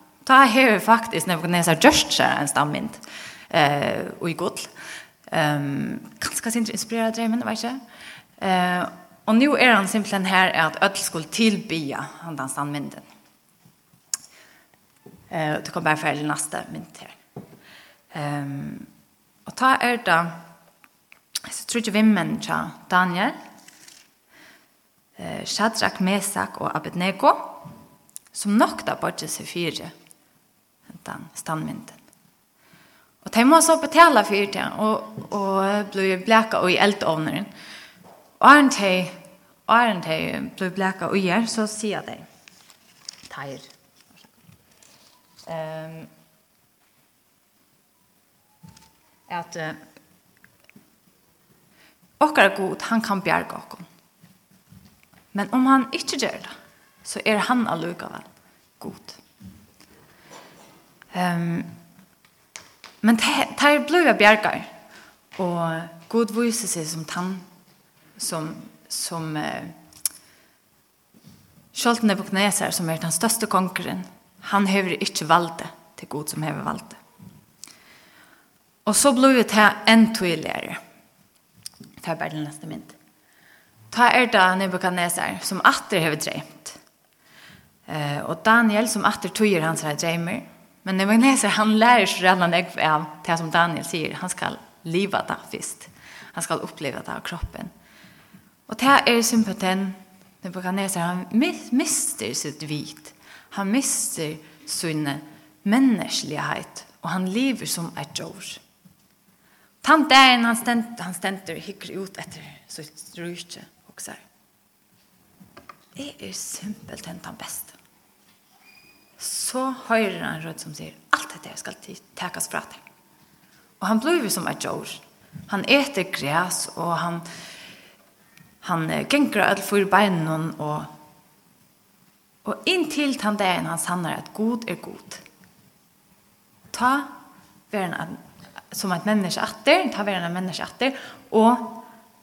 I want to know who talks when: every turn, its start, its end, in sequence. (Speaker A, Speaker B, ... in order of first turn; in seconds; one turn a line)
Speaker A: 0.2-4.7
Speaker A: 5.3-7.8
Speaker A: 8.4-13.1
Speaker A: 15.3-17.2
Speaker A: 18.1-18.9
Speaker A: 19.5-20.4
Speaker A: 21.4-23.4
Speaker A: 25.2-27.7
Speaker A: 28.3-29.9
Speaker A: 30.9-32.0
Speaker A: 33.2-37.5
Speaker A: 38.4-42.3
Speaker A: 43.3-43.7
Speaker A: 45.5-46.1
Speaker A: 49.3-49.8
Speaker A: 52.2-53.9
Speaker A: 55.3-58.3
Speaker A: 58.8-59.2
Speaker A: 61.1-61.7
Speaker A: 63.0-64.7
Speaker A: 65.4-67.5
Speaker A: 68.2-69.8
Speaker A: 71.7-77.0
Speaker A: 78.8-80.8
Speaker A: 82.0-83.0
Speaker A: 83.9-86.8
Speaker A: 87.9-97.7
Speaker A: 98.7-108.6
Speaker A: 109.8-114.2
Speaker A: 116.0-117.8
Speaker A: 119.2-122.8
Speaker A: 123.8-127.3
Speaker A: 128.6-130.9
Speaker A: 132.4-135.2
Speaker A: 136.7-137.1
Speaker A: 137.7-138.2
Speaker A: 138.7-141.9